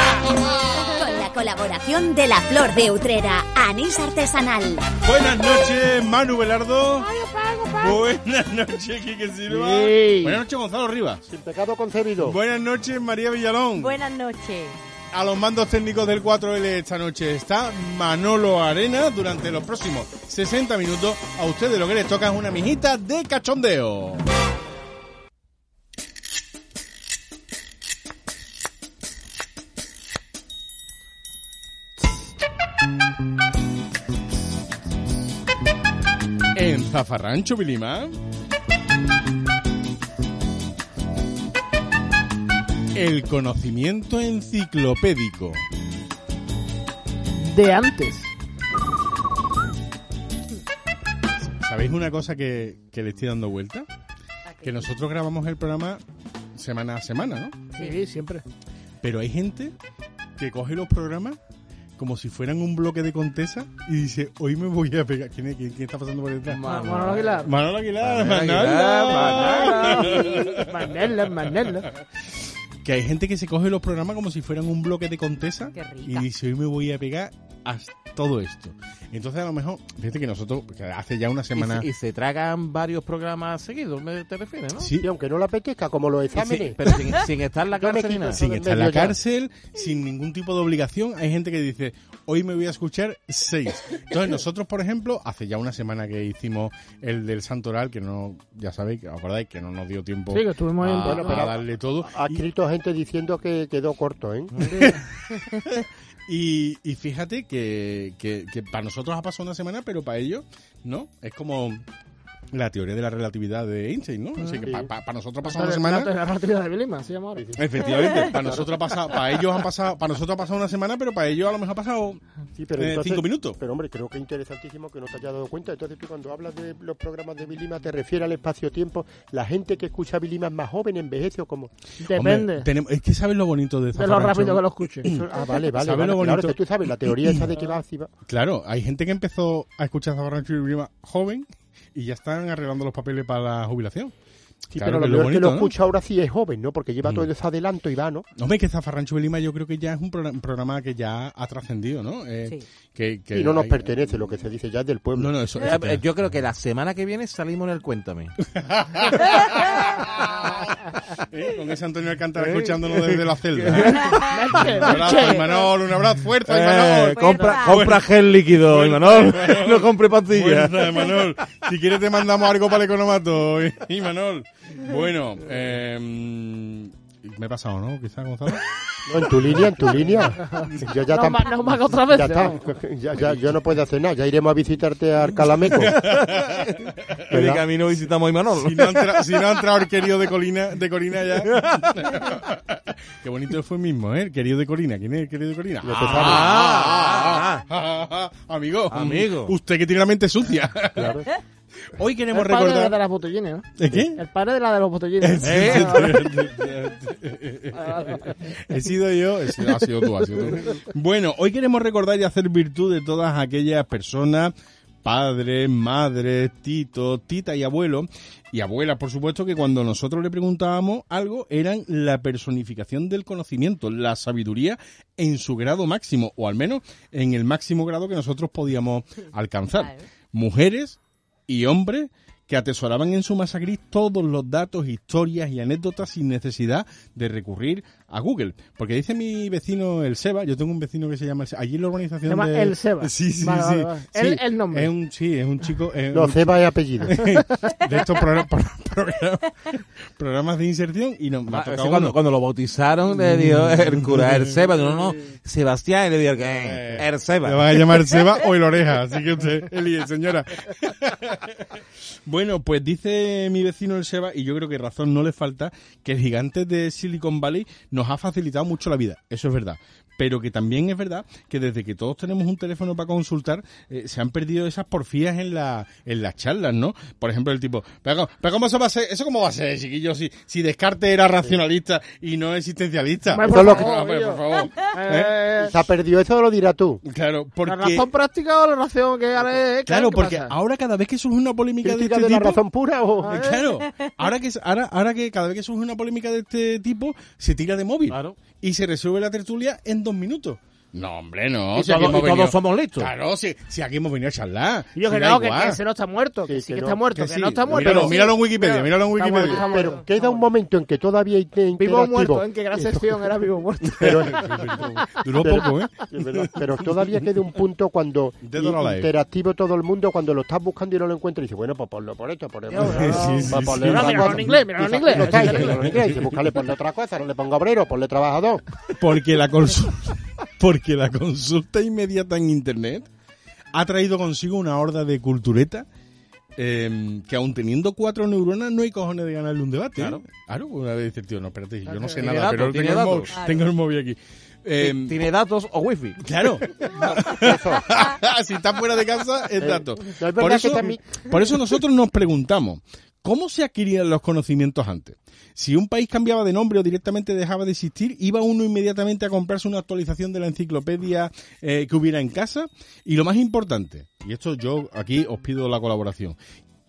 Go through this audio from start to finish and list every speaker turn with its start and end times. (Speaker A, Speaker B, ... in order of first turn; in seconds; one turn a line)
Speaker A: 0.9-4.9
Speaker B: 5.0-7.1
Speaker C: 7.0-8.0
Speaker B: 7.8-11.2
Speaker C: 9.5-10.4
Speaker D: 11.3-12.4
Speaker B: 12.2-13.9
Speaker E: 13.8-14.8
Speaker B: 15.1-24.2
Speaker B: 36.5-38.1
Speaker B: 43.0-45.6
Speaker C: 47.5-48.3
Speaker B: 51.5-53.9
Speaker E: 54.5-54.9
Speaker B: 54.6-56.0
Speaker B: 56.5-57.6
Speaker C: 57.7-58.4
Speaker B: 59.0-59.7
Speaker B: 60.4-61.4
Speaker B: 62.0-66.6
Speaker F: 66.5-67.5
Speaker C: 66.6-67.5
Speaker B: 67.4-70.7
Speaker F: 68.0-70.4
Speaker C: 69.1-71.9
Speaker B: 72.8-81.9
Speaker E: 75.7-76.3
Speaker F: 81.6-84.9
Speaker B: 84.8-85.1
Speaker D: 85.0-86.9
Speaker F: 86.3-88.4
Speaker D: 87.8-89.2
Speaker B: 88.4-102.4
Speaker C: 100.3-101.5
Speaker D: 101.0-104.7
Speaker B: 104.6-111.8
Speaker B: 112.5-116.1
Speaker C: 114.4-114.7
Speaker D: 114.7-114.9
Speaker C: 115.4-117.5
Speaker D: 117.4-118.7
Speaker B: 117.6-122.2
Speaker D: 122.6-131.7
Speaker B: 122.8-123.6
Speaker C: 132.0-132.7
Speaker B: 132.1-137.5
Speaker C: 134.0-135.1
Speaker D: 135.1-138.1
Speaker B: 138.3-144.1
Speaker D: 144.7-148.3
Speaker B: 144.7-145.7
Speaker B: 148.4-154.1
Speaker D: 153.3-155.3
Speaker B: 155.2-156.0
Speaker F: 155.6-158.3
Speaker B: 158.5-168.1
Speaker E: 159.3-159.7
Speaker F: 162.4-164.1
Speaker E: 164.0-164.3
Speaker C: 164.2-165.7
Speaker F: 166.5-170.9
Speaker E: 167.1-167.9
Speaker B: 168.6-178.7
Speaker D: 179.1-185.9
Speaker B: 179.5-179.9
Speaker C: 180.5-182.6
Speaker B: 185.6-187.3
Speaker F: 185.8-189.3
Speaker D: 187.3-187.7
Speaker B: 188.6-201.2
Speaker F: 191.5-192.0
Speaker D: 195.8-196.6
Speaker F: 196.1-197.7
Speaker F: 198.9-199.5
Speaker D: 201.0-201.3
Speaker B: 201.9-203.0
Speaker C: 202.3-206.5
Speaker B: 203.8-204.2
Speaker B: 205.2-214.5
Speaker F: 205.4-206.1
Speaker C: 207.9-208.2
Speaker B: 215.0-252.2
Speaker E: 229.8-230.0
Speaker C: 242.3-244.9
Speaker D: 246.1-247.3
Speaker F: 251.5-258.0
Speaker B: 253.2-254.6
Speaker B: 256.6-285.4
Speaker C: 283.3-285.7
Speaker D: 283.4-283.9
Speaker D: 285.6-287.0
Speaker B: 287.1-288.1
Speaker C: 287.6-290.5
Speaker B: 289.9-292.6
Speaker D: 291.8-293.5
Speaker C: 293.2-293.6
Speaker B: 293.3-305.8
Speaker F: 298.1-298.4
Speaker F: 301.8-303.1
Speaker C: 305.0-310.4
Speaker D: 306.5-307.0
Speaker B: 307.1-309.6
Speaker D: 307.7-308.2
Speaker D: 309.2-313.2
Speaker E: 309.7-310.0
Speaker C: 311.8-314.5
Speaker D: 313.9-328.6
Speaker B: 314.0-317.3
Speaker B: 318.4-319.1
Speaker C: 322.7-325.9
Speaker B: 322.8-324.6
Speaker B: 325.1-326.5
Speaker B: 328.9-333.1
Speaker B: 333.8-335.9
Speaker B: 336.6-345.2
Speaker F: 340.0-340.2
Speaker F: 342.2-343.4
Speaker E: 343.4-343.6
Speaker F: 344.8-346.2
Speaker B: 346.2-366.4
Speaker D: 347.2-347.9
Speaker D: 349.6-351.0